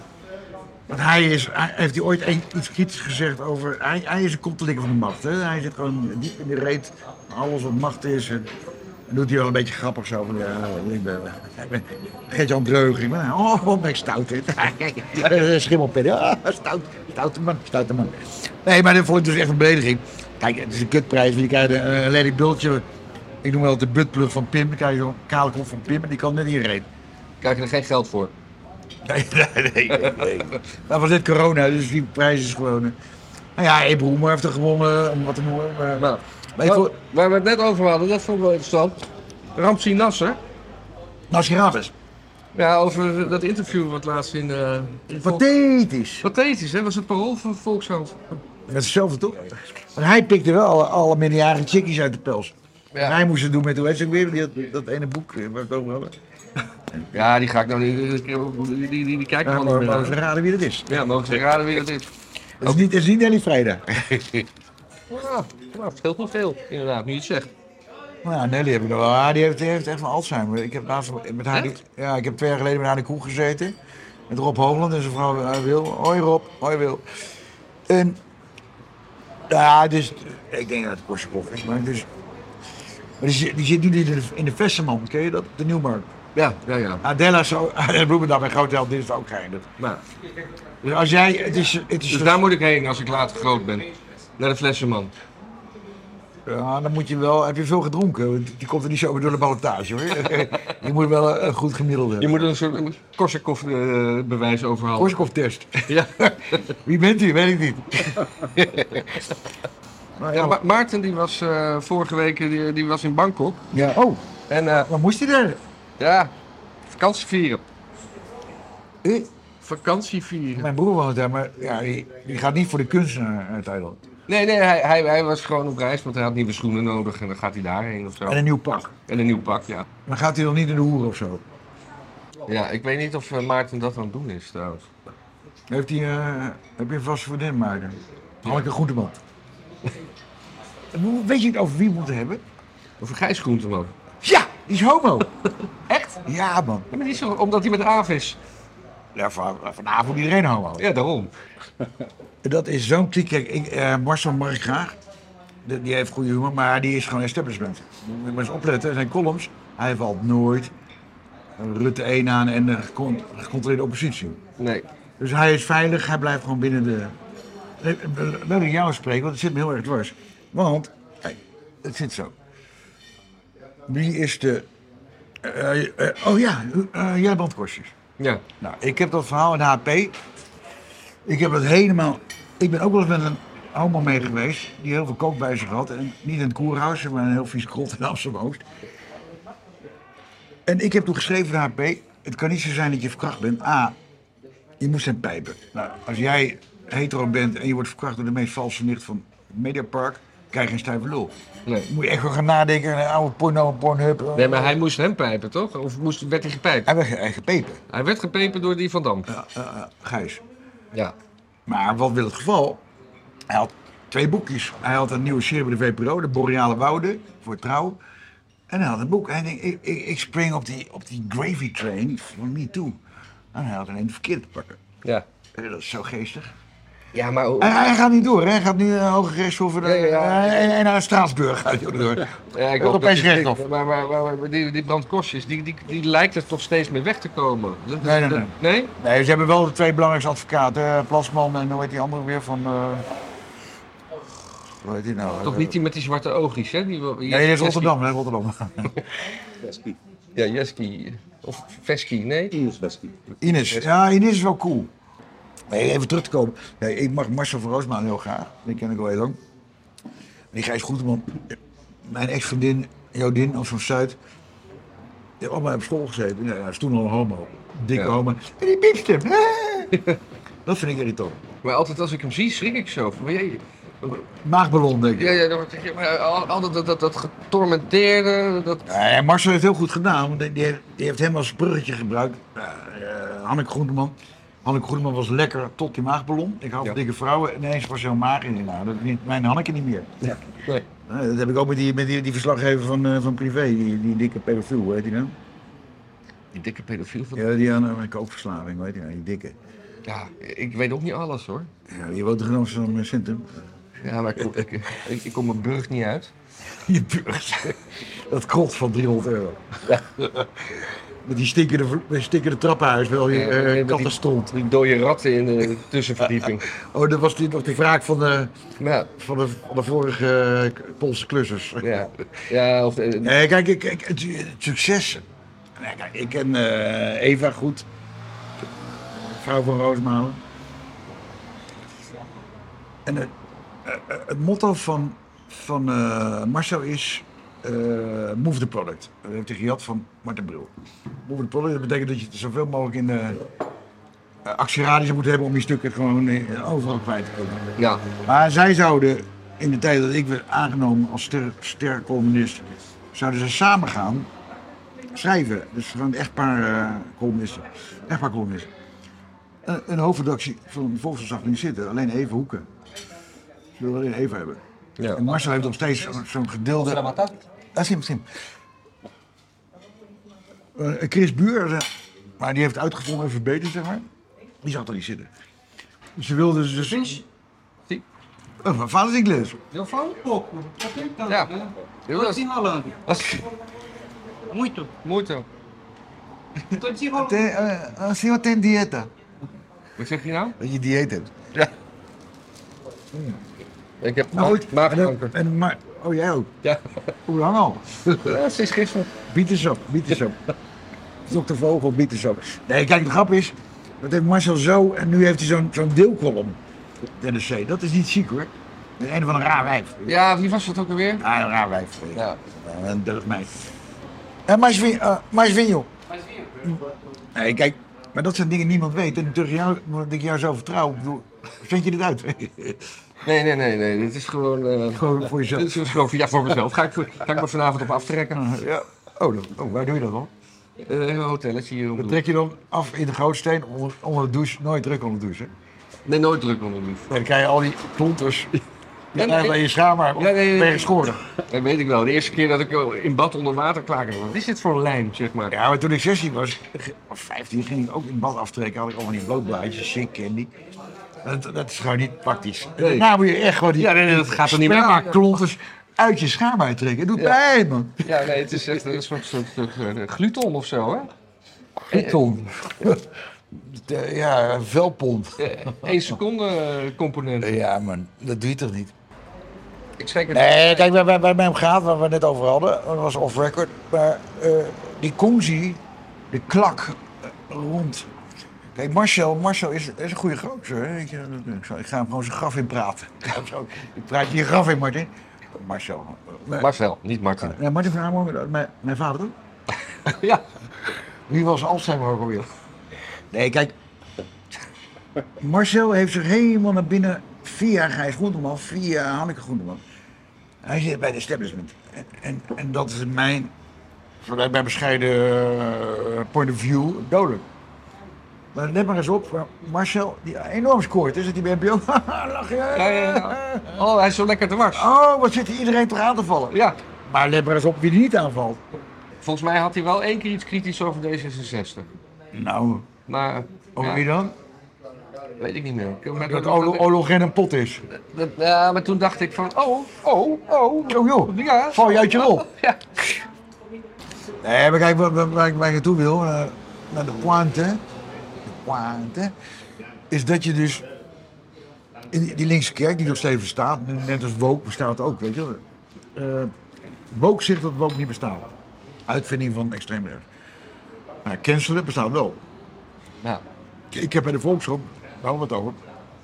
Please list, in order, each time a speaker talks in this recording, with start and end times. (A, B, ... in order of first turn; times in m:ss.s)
0:00.9-0:08.5 A
0:09.1-0:22.8 A
0:23.4-0:26.9 A
0:27.4-0:28.3 B
0:29.0-0:33.0 A
0:29.9-0:30.3 B
0:33.6-0:37.0 A
0:36.0-0:39.0 B
0:39.6-0:40.4 B
0:41.3-0:41.9 A
0:42.6-0:45.4 B
0:45.1-0:46.3 A
0:46.2-0:48.2 B
0:48.7-0:56.2 A
0:56.9-0:57.2 A
0:57.1-1:00.2 B
0:59.4-1:01.6 A
1:00.9-1:02.1 B
1:02.6-1:04.5 A
1:05.1-1:07.5 B
1:08.2-1:13.8 A
1:14.3-1:17.3 A
1:17.9-1:18.2 A
1:19.5-1:22.1 A
1:23.2-1:26.1 A
1:26.4-1:27.0 B
1:27.0-1:29.7 A
1:30.8-1:32.5 A
1:32.1-1:33.9 B
1:34.4-1:35.1 B
1:36.5-1:42.5 A
1:42.2-1:45.2 B
1:45.0-1:49.1 A
1:45.9-1:46.6 B
1:48.6-1:49.2 B
1:50.2-1:50.6 A
1:50.3-1:53.7 B
1:53.7-1:54.2 A
1:54.5-1:54.9 B
1:54.9-1:55.6 A
1:56.0-1:56.3 B
1:56.9-1:57.6 B
1:59.0-1:59.3 A
1:59.6-2:00.7 B
2:00.6-2:04.0 A
2:04.3-2:08.4 B
2:08.3-2:08.9 A
2:09.1-2:09.9 B
2:10.1-2:11.4 A
2:12.5-2:14.9 B
2:15.7-2:19.2 A
2:20.9-2:22.4 A
2:23.0-2:23.9 B
2:24.2-2:25.3 A
2:25.9-2:26.2 B
2:26.2-2:26.9 A
2:26.9-2:28.4 B
2:29.2-2:30.8 A
2:30.8-2:31.3 B
2:32.4-2:35.0 A
2:35.6-2:40.7 A
2:41.6-2:44.4 A
2:44.6-2:44.9 B
2:45.2-2:47.2 A
2:47.8-2:52.3 A
2:53.9-2:54.7 A
2:55.4-2:57.9 A
2:58.2-2:58.4 B
2:58.6-3:00.2 A
3:01.3-3:08.6 A
3:10.7-3:14.0 A
3:14.8-3:24.8 A
3:24.4-3:26.9 B
3:26.9-3:27.8 A
3:27.9-3:29.3 B
3:29.3-3:30.4 A
3:31.7-3:32.8 A
3:33.5-3:38.0 A
3:38.7-3:43.0 A
3:43.5-3:44.8 A
3:45.5-3:46.5 A
3:47.1-3:47.8 B
3:47.6-3:53.6 A
3:49.8-3:50.7 B
3:52.5-3:58.9 B
3:58.0-4:03.1 A
4:04.8-4:05.8 A
4:05.3-4:07.9 B
4:07.2-4:09.0 A
4:09.6-4:10.0 C
4:10.4-4:12.6 B
4:12.5-4:13.2 C
4:13.4-4:14.9 A
4:15.7-4:19.4 A
4:20.5-4:21.4 A
4:22.1-4:24.2 A
4:25.4-4:30.1 A
4:30.6-4:31.4 A
4:31.6-4:34.2 B
4:34.4-4:35.4 A
4:35.2-4:38.9 B
4:38.9-4:50.1 A
4:50.2-4:50.9 B
4:51.1-4:55.4 A
4:56.5-4:57.5 B
4:57.4-4:59.6 A
5:00.1-5:01.7 B
5:01.9-5:03.5 A
5:04.0-5:06.3 B
5:06.8-5:14.6 A
5:13.3-5:16.7 B
5:16.2-5:18.5 A
5:18.8-5:19.1 B
5:19.1-5:22.1 A
5:21.8-5:23.3 B
5:23.2-5:25.2 A
5:25.8-5:27.9 A
5:29.2-5:30.4 A
5:33.0-5:33.3 A
5:33.8-5:40.7 A
5:41.2-5:43.4 A
5:44.4-5:47.6 A
5:47.8-5:48.0 B
5:48.2-5:54.3 A
5:55.1-5:58.7 A
5:59.6-6:02.7 A
6:03.8-6:04.6 A
6:05.0-6:05.2 B
6:05.1-6:07.2 A
6:06.9-6:07.3 C
6:07.8-6:08.2 A
6:10.8-6:11.9 A
6:12.4-6:14.1 A
6:14.6-6:15.3 A
6:16.2-6:17.2 A
6:17.0-6:17.2 C
6:18.6-6:19.6 A
6:19.7-6:20.2 B
6:20.0-6:23.0 C
6:21.3-6:21.6 B
6:22.1-6:22.4 B
6:23.1-6:23.4 B
6:24.5-6:24.9 C
6:25.0-6:25.5 B
6:26.7-6:27.5 C
6:27.1-6:29.1 A
6:30.0-6:30.6 B
6:30.6-6:31.3 A
6:33.1-6:33.4 A
6:34.0-6:35.3 B
6:34.3-6:36.5 A
6:36.6-6:36.9 B
6:37.3-6:38.4 A
6:38.2-6:39.1 B
6:39.3-6:40.4 A
6:41.3-6:46.6 A
6:47.2-6:50.2 A
6:50.0-6:51.2 B
6:51.2-6:53.7 A
6:54.5-6:55.9 A
6:57.4-7:02.8 A
7:03.2-7:08.6 B
7:04.9-7:05.8 A
7:08.3-7:10.3 A
7:10.9-7:12.2 B
7:12.0-7:15.5 A
7:16.1-7:17.2 B
7:17.1-7:18.5 A
7:19.1-7:19.6 B
7:19.1-7:21.2 A
7:20.2-7:25.6 B
7:25.5-7:30.5 A
7:31.2-7:39.0 A
7:32.8-7:33.1 B
7:33.8-7:35.4 B
7:38.0-7:41.1 B
7:41.9-7:46.2 A
7:41.9-7:42.2 B
7:45.4-7:47.5 B
7:47.4-7:48.9 A
7:50.0-7:50.9 B
7:50.3-7:58.1 A
7:58.8-8:06.7 A
8:06.6-8:07.6 B
8:07.4-8:09.4 A
8:10.0-8:10.4 B
8:11.3-8:12.5 A
8:13.3-8:13.8 A
8:15.4-8:19.8 A
8:20.6-8:23.5 A
8:24.2-8:27.5 A
8:28.5-8:33.8 A
8:32.7-8:34.9 B
8:34.7-8:38.6 A
8:36.5-8:36.8 B
8:39.2-8:41.9 B
8:42.3-8:42.9 A
8:43.1-8:44.0 B
8:43.8-8:44.4 A
8:45.4-8:46.9 B
8:46.2-8:47.8 A
8:47.9-8:53.1 B
8:50.9-8:52.5 A
8:54.4-8:57.8 A
8:58.5-8:59.3 A
9:00.1-9:00.9 A
9:02.1-9:05.6 A
9:06.2-9:06.5 A
9:07.1-9:08.5 A
9:09.1-9:10.3 A
9:11.2-9:12.4 A
9:13.9-9:15.8 A